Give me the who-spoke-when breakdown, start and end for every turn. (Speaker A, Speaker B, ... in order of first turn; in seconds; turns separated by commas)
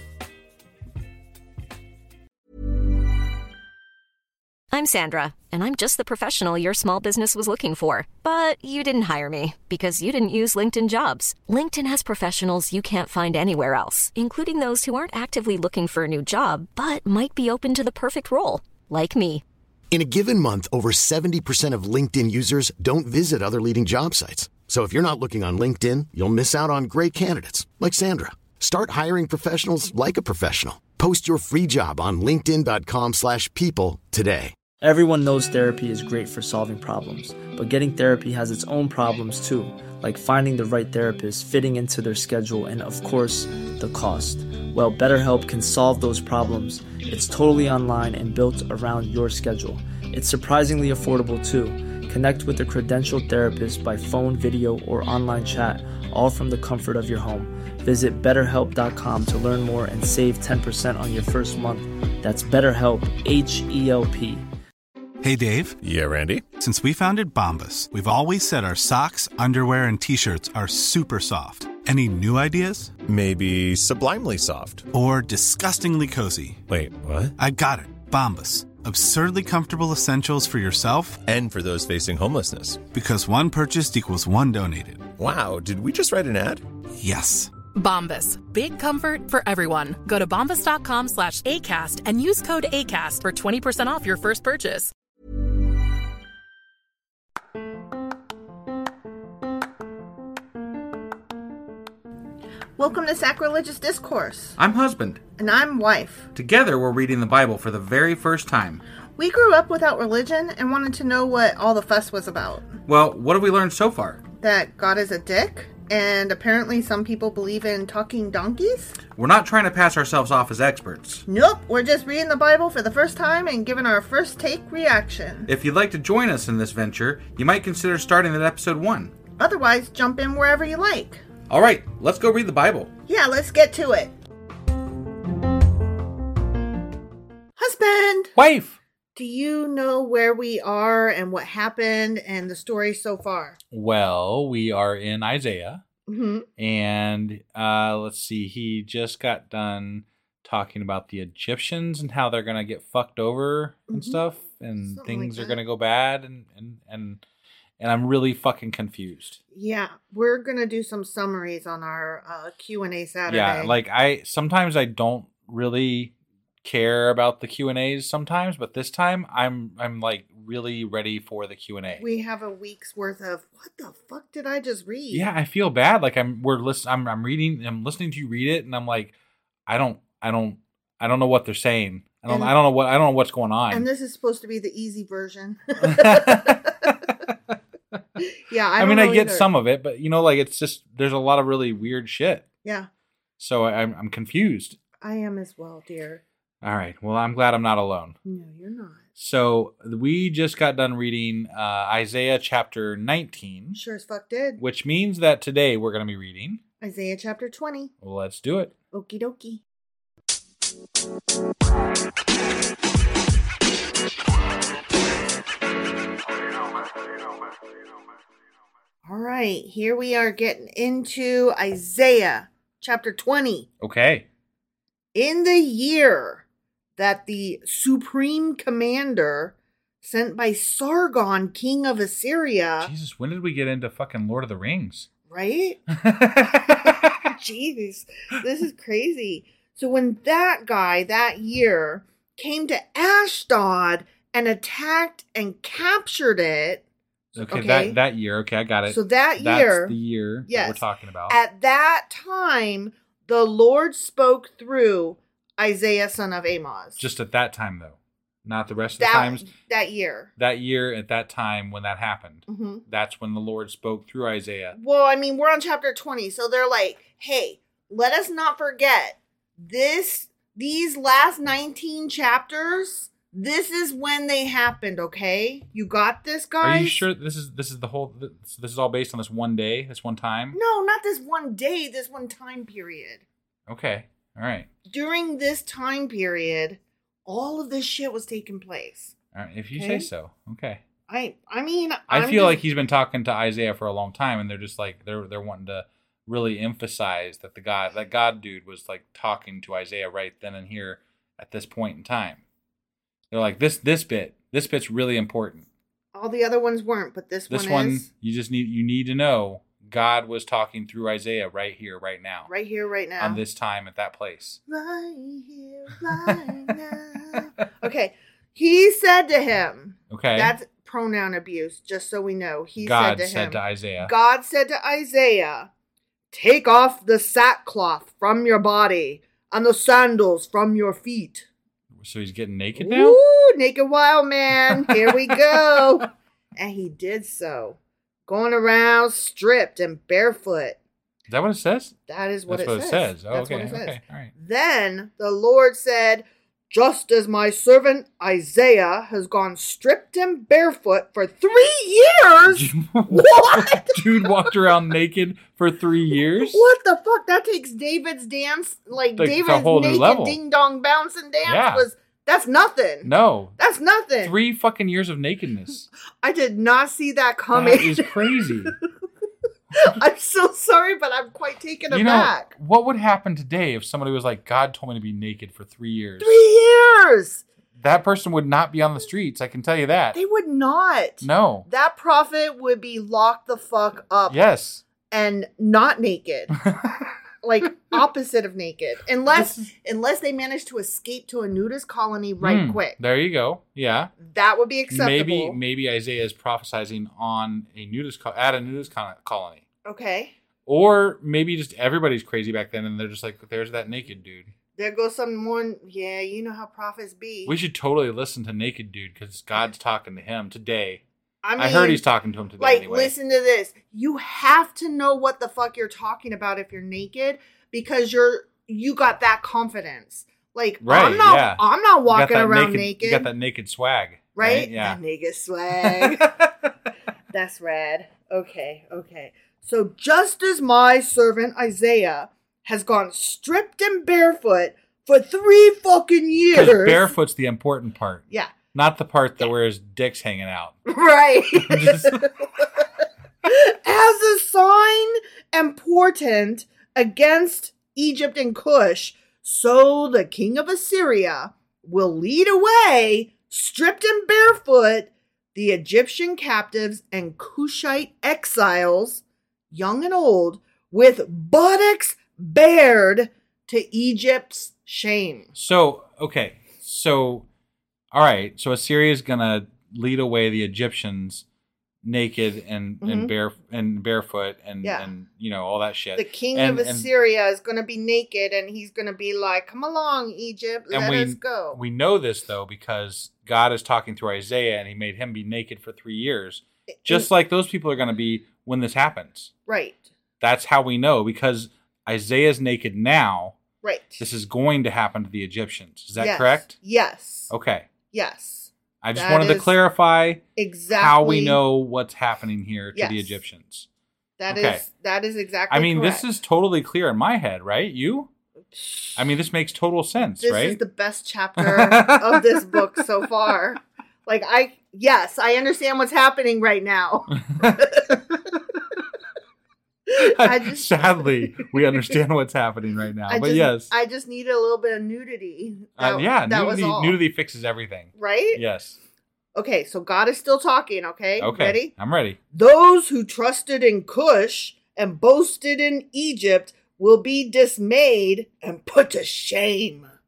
Speaker A: 4.7-19.4, Speaker B: 19.9-34.5, Speaker C: 34.8-64.4, Speaker D: 65.2-65.8, Speaker E: 65.8-66.4, Speaker D: 66.5-72.9, Speaker E: 73.1-74.8, Speaker D: 74.9-76.6, Speaker E: 76.7-77.3, Speaker D: 77.4-81.2, Speaker E: 81.3-82.8, Speaker D: 82.9-85.1, Speaker E: 85.2-86.6, Speaker D: 87.0-87.5, Speaker F: 87.8-94.9, Speaker G: 102.8-104.6, Speaker H: 104.6-105.2, Speaker G: 105.4-106.3, Speaker H: 106.3-108.8, Speaker G: 109.2-112.7, Speaker H: 112.9-114.2, Speaker G: 114.4-119.0, Speaker H: 119.2-121.2, Speaker G: 121.3-125.5, Speaker H: 125.5-129.2, Speaker G: 129.4-131.2, Speaker H: 131.5-132.9, Speaker G: 133.1-134.1, Speaker G: 137.6-138.3, Speaker H: 138.4-138.8, Speaker G: 139.2-143.6, Speaker H: 143.7-145.8, Speaker G: 146.1-146.5, Speaker H: 146.6-157.2, Speaker G: 153.9-154.2, Speaker G: 154.8-155.6, Speaker H: 157.8-159.4, Speaker G: 159.5-163.8, Speaker H: 163.3-172.0, Speaker G: 172.0-175.2, Speaker H: 175.1-179.2, Speaker H: 179.7-183.9, Speaker G: 182.3-182.5, Speaker G: 183.7-186.5, Speaker H: 185.8-187.6, Speaker G: 188.4-189.5, Speaker H: 188.8-192.4, Speaker G: 192.6-192.9, Speaker H: 193.4-194.8, Speaker G: 195.0-196.2, Speaker H: 196.6-198.2, Speaker G: 198.2-199.0, Speaker H: 199.2-203.8, Speaker G: 203.8-204.6, Speaker H: 204.6-206.6, Speaker G: 206.8-207.9, Speaker H: 208.0-208.7, Speaker G: 208.9-209.6, Speaker G: 219.1-223.7, Speaker H: 223.8-224.3, Speaker G: 225.1-226.4, Speaker G: 227.0-232.9, Speaker H: 232.8-235.1, Speaker G: 235.3-235.8, Speaker H: 236.0-237.1, Speaker G: 237.3-246.8, Speaker H: 247.3-251.4, Speaker G: 247.5-248.0, Speaker G: 248.9-257.0, Speaker H: 257.0-259.4, Speaker G: 259.0-260.3, Speaker H: 260.4-264.8, Speaker G: 262.5-262.8, Speaker G: 264.8-277.1, Speaker H: 276.6-280.6, Speaker G: 280.5-283.2, Speaker H: 283.7-284.7, Speaker G: 284.9-289.1, Speaker H: 289.3-290.8, Speaker G: 289.7-290.1, Speaker G: 291.1-292.6, Speaker H: 292.1-302.4, Speaker H: 303.3-305.7, Speaker G: 306.1-308.1, Speaker H: 307.5-312.5, Speaker G: 312.5-313.4, Speaker H: 313.2-314.6, Speaker G: 314.7-325.7, Speaker H: 320.1-320.6, Speaker H: 322.8-324.1, Speaker G: 326.3-331.5, Speaker H: 332.0-333.2, Speaker G: 332.8-340.8, Speaker H: 341.3-342.0, Speaker G: 342.1-354.5, Speaker H: 342.5-344.3, Speaker H: 352.5-356.7, Speaker G: 356.3-364.4, Speaker H: 359.2-360.4, Speaker H: 361.4-361.9, Speaker H: 363.0-363.6, Speaker H: 364.2-365.9, Speaker G: 366.2-368.7, Speaker H: 367.5-368.8, Speaker G: 369.8-372.5, Speaker H: 371.9-376.4, Speaker G: 376.2-377.4, Speaker H: 377.8-380.2, Speaker G: 380.1-384.4, Speaker H: 381.2-381.7, Speaker H: 384.3-384.9, Speaker G: 385.0-386.5, Speaker H: 386.7-386.9, Speaker G: 387.4-393.0, Speaker H: 389.3-389.7, Speaker H: 392.4-394.1, Speaker G: 394.2-395.6, Speaker H: 394.9-399.6, Speaker G: 399.9-400.3, Speaker H: 400.7-404.5, Speaker G: 404.8-407.6, Speaker H: 407.5-411.0, Speaker G: 411.4-412.0, Speaker H: 411.6-413.1, Speaker G: 412.6-423.3, Speaker H: 420.8-425.0, Speaker G: 424.4-426.3, Speaker H: 425.8-426.5, Speaker G: 427.3-437.1, Speaker H: 436.5-440.8, Speaker G: 438.3-438.6, Speaker G: 440.9-442.2, Speaker H: 441.6-442.2, Speaker G: 443.5-465.5, Speaker H: 465.6-467.5, Speaker H: 468.1-471.4, Speaker H: 472.0-477.1, Speaker G: 473.0-473.3, Speaker G: 474.8-475.1, Speaker G: 476.2-481.8, Speaker H: 480.9-489.5, Speaker G: 489.7-490.1, Speaker H: 490.4-493.6, Speaker G: 493.8-494.2, Speaker H: 494.2-496.8, Speaker G: 496.2-497.5, Speaker H: 497.5-497.9, Speaker G: 498.1-499.8, Speaker H: 499.0-503.9, Speaker G: 500.6-501.6, Speaker G: 502.9-503.4, Speaker G: 504.4-506.3, Speaker H: 504.5-504.9, Speaker H: 505.7-508.3, Speaker G: 508.7-509.3, Speaker H: 509.2-510.8, Speaker G: 510.4-518.2, Speaker H: 511.6-512.6, Speaker H: 517.3-517.8, Speaker H: 520.2-523.9, Speaker G: 520.4-522.1, Speaker G: 523.3-527.2, Speaker H: 526.0-529.0, Speaker G: 528.1-528.6, Speaker G: 529.5-531.9, Speaker H: 531.4-532.4, Speaker G: 532.5-540.1